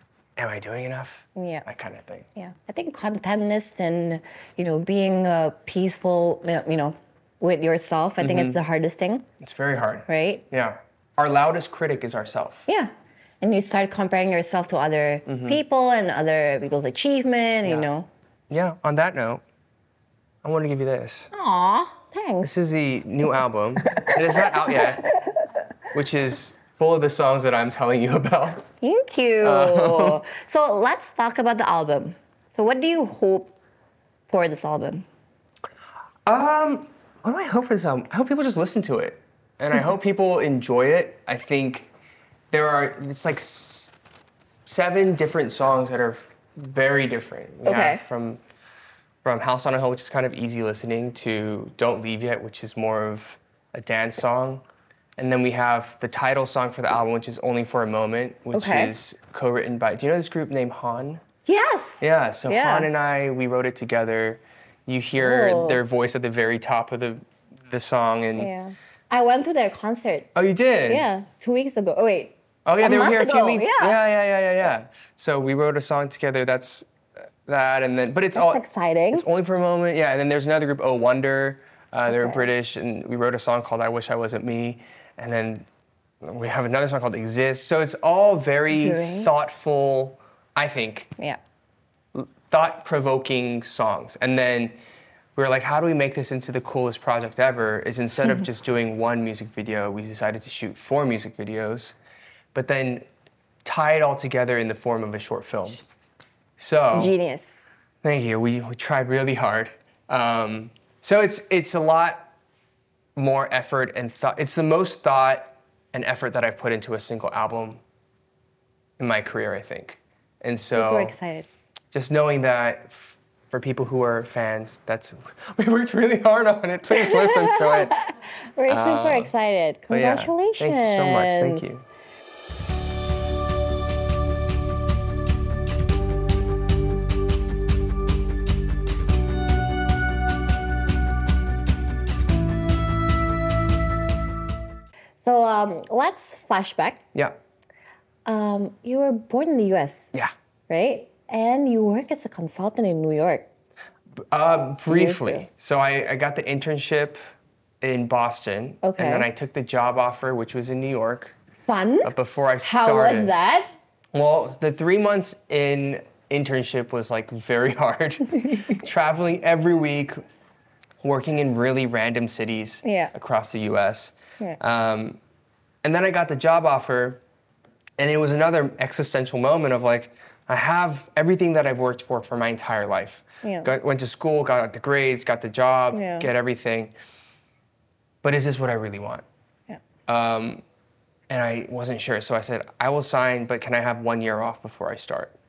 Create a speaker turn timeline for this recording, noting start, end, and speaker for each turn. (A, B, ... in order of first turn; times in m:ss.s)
0:00.4-0:02.3 A
0:01.4-0:01.6 B
0:02.4-0:09.2 B
0:08.2-0:08.6 A
0:09.4-0:12.7 A
0:10.1-0:10.4 B
0:12.7-0:18.1 B
0:15.3-0:15.6 A
0:17.6-0:17.9 A
0:18.5-0:19.4 A
0:20.4-0:21.3 A
0:21.3-0:22.5 B
0:22.4-0:25.1 A
0:23.9-0:25.4 B
0:25.9-0:28.6 A
0:28.8-0:33.5 B
0:29.4-0:30.2 A
0:34.3-0:35.0 B
0:36.3-0:41.9 A
0:42.5-0:43.9 A
0:44.6-0:48.4 A
0:47.6-0:48.0 B
0:49.2-0:54.6 A
0:55.2-1:01.2 A
0:58.5-0:58.9 B
1:01.4-1:02.9 B
1:02.0-1:08.5 A
1:05.2-1:05.8 B
1:08.4-1:10.3 B
1:10.3-1:11.0 A
1:10.9-1:14.0 B
1:12.6-1:16.9 A
1:17.4-1:25.6 A
1:18.3-1:19.2 B
1:22.1-1:22.4 B
1:26.2-1:31.1 A
1:28.7-1:29.3 B
1:32.1-1:34.7 A
1:35.4-1:42.0 A
1:42.5-1:43.0 A
1:43.6-1:45.8 A
1:46.6-1:47.1 A
1:46.9-1:47.6 B
1:48.0-1:52.3 A
1:53.2-1:57.8 A
1:59.0-2:01.2 A
2:00.7-2:01.5 B
2:01.9-2:08.0 A
2:06.9-2:11.7 B
2:08.7-2:09.3 A
2:09.9-2:11.8 A
2:25.2-2:27.0 B
2:28.2-2:30.1 B
2:30.7-2:33.5 B
2:34.3-2:37.2 A
2:34.9-2:35.4 B
2:37.8-2:41.3 A
2:38.8-2:39.3 B
2:41.6-2:43.7 B
2:42.0-2:43.3 A
2:44.1-2:50.2 A
2:51.0-2:55.2 A
2:52.8-2:53.1 B
2:55.8-2:57.2 A
2:58.0-3:06.9 A
3:03.4-3:03.7 B
3:05.9-3:06.3 B
3:08.2-3:09.2 A
3:10.1-3:10.6 A
3:11.3-3:15.3 A